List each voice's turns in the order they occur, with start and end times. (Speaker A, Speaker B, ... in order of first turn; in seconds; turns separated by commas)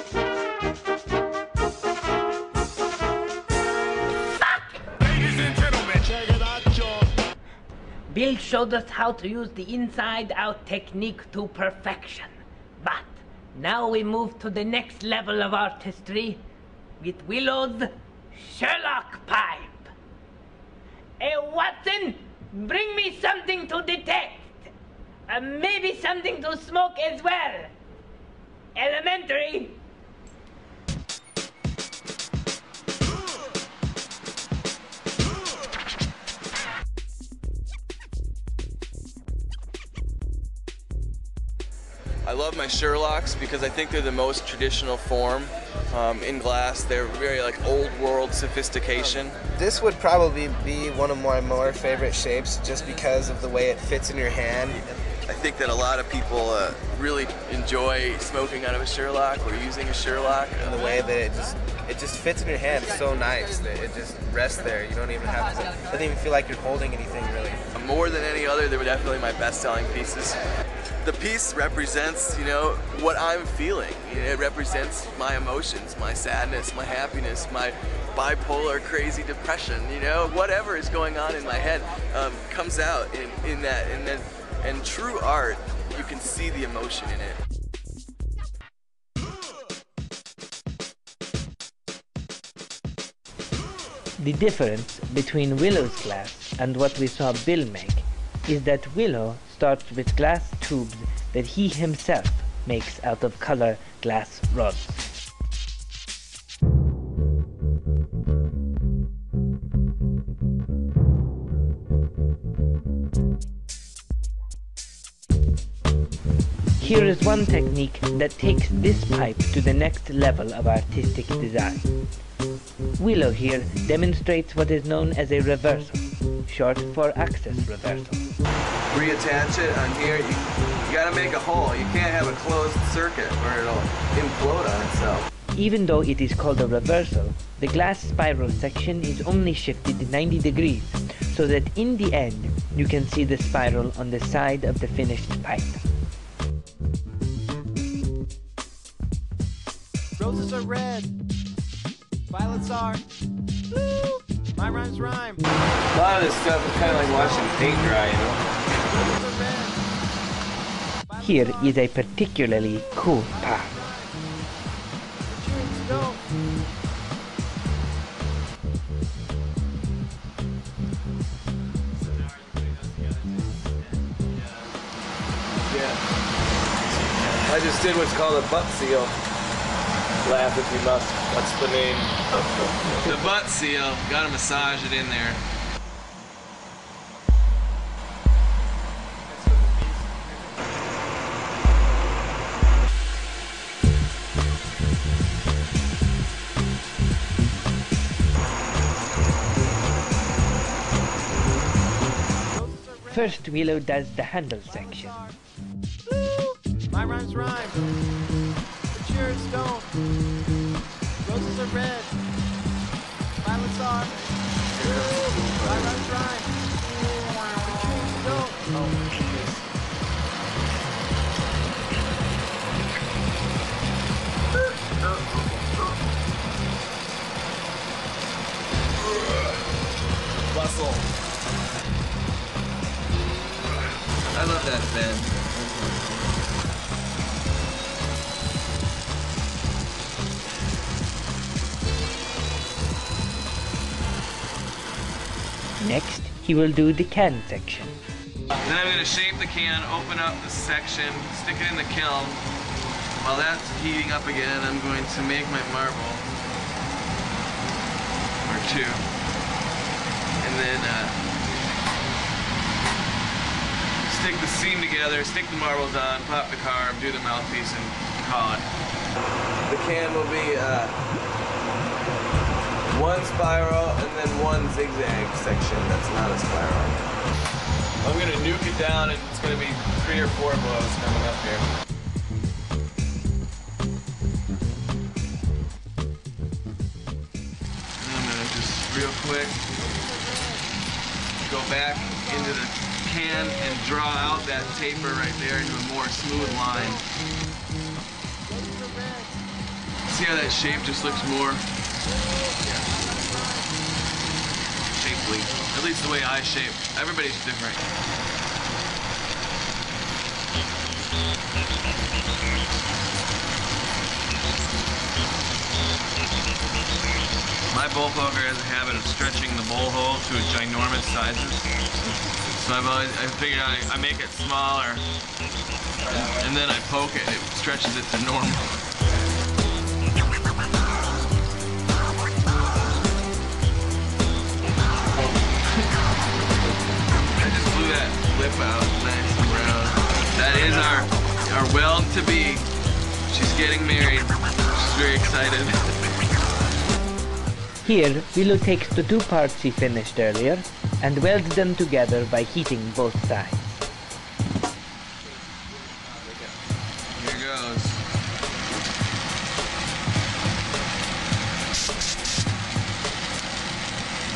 Speaker A: 4.4-5.6, Speaker A: 8.1-16.4, Speaker A: 17.0-19.9, Speaker A: 21.2-24.7, Speaker A: 25.3-27.7, Speaker A: 28.7-29.8, Speaker B: 42.2-49.4, Speaker C: 49.5-55.0, Speaker B: 55.3-60.9, Speaker C: 60.6-67.6, Speaker B: 67.7-70.4, Speaker B: 71.0-87.4, Speaker A: 94.2-105.0, Speaker A: 116.8-121.9, Speaker A: 123.0-128.3, Speaker B: 128.9-135.3, Speaker A: 135.5-145.8, Speaker D: 150.2-151.1, Speaker D: 152.3-153.0, Speaker D: 154.6-155.4, Speaker B: 155.9-158.4, Speaker D: 156.8-157.6, Speaker D: 158.8-159.8, Speaker D: 161.1-161.8, Speaker A: 161.2-163.7, Speaker D: 163.3-164.1, Speaker D: 165.3-166.2, Speaker B: 171.9-174.7, Speaker B: 175.6-176.0, Speaker B: 176.8-179.2, Speaker B: 180.2-185.4, Speaker D: 202.5-203.4, Speaker A: 203.1-205.2, Speaker D: 204.7-205.3, Speaker D: 206.9-207.8, Speaker D: 208.9-209.9, Speaker D: 211.2-212.1, Speaker D: 213.4-214.1, Speaker B: 214.1-216.0, Speaker D: 215.6-216.5, Speaker D: 217.7-218.6, Speaker B: 218.7-219.6, Speaker B: 225.0-225.3, Speaker B: 229.0-229.6, Speaker B: 230.5-231.0, Speaker B: 234.3-235.9, Speaker A: 245.8-247.9, Speaker B: 248.6-252.4, Speaker B: 253.1-256.2, Speaker B: 258.4-259.1, Speaker B: 260.4-261.2, Speaker B: 264.1-268.7, Speaker B: 269.6-271.0, Speaker B: 272.9-277.0, Speaker B: 278.0-281.7, Speaker B: 288.0-289.6, Speaker D: 289.7-290.7, Speaker B: 291.4-297.1, Speaker D: 292.0-292.4, Speaker D: 296.4-297.0, Speaker D: 298.5-299.4, Speaker B: 300.1-301.6, Speaker D: 300.6-301.4, Speaker D: 302.2-303.8, Speaker B: 304.9-307.9, Speaker B: 317.7-321.7, Speaker B: 322.5-325.0, Speaker B: 326.0-328.7, Speaker B: 335.1-335.4, Speaker B: 337.4-342.7, Speaker B: 343.3-346.0, Speaker A: 347.8-353.8, Speaker B: 356.1-356.5, Speaker B: 357.1-358.0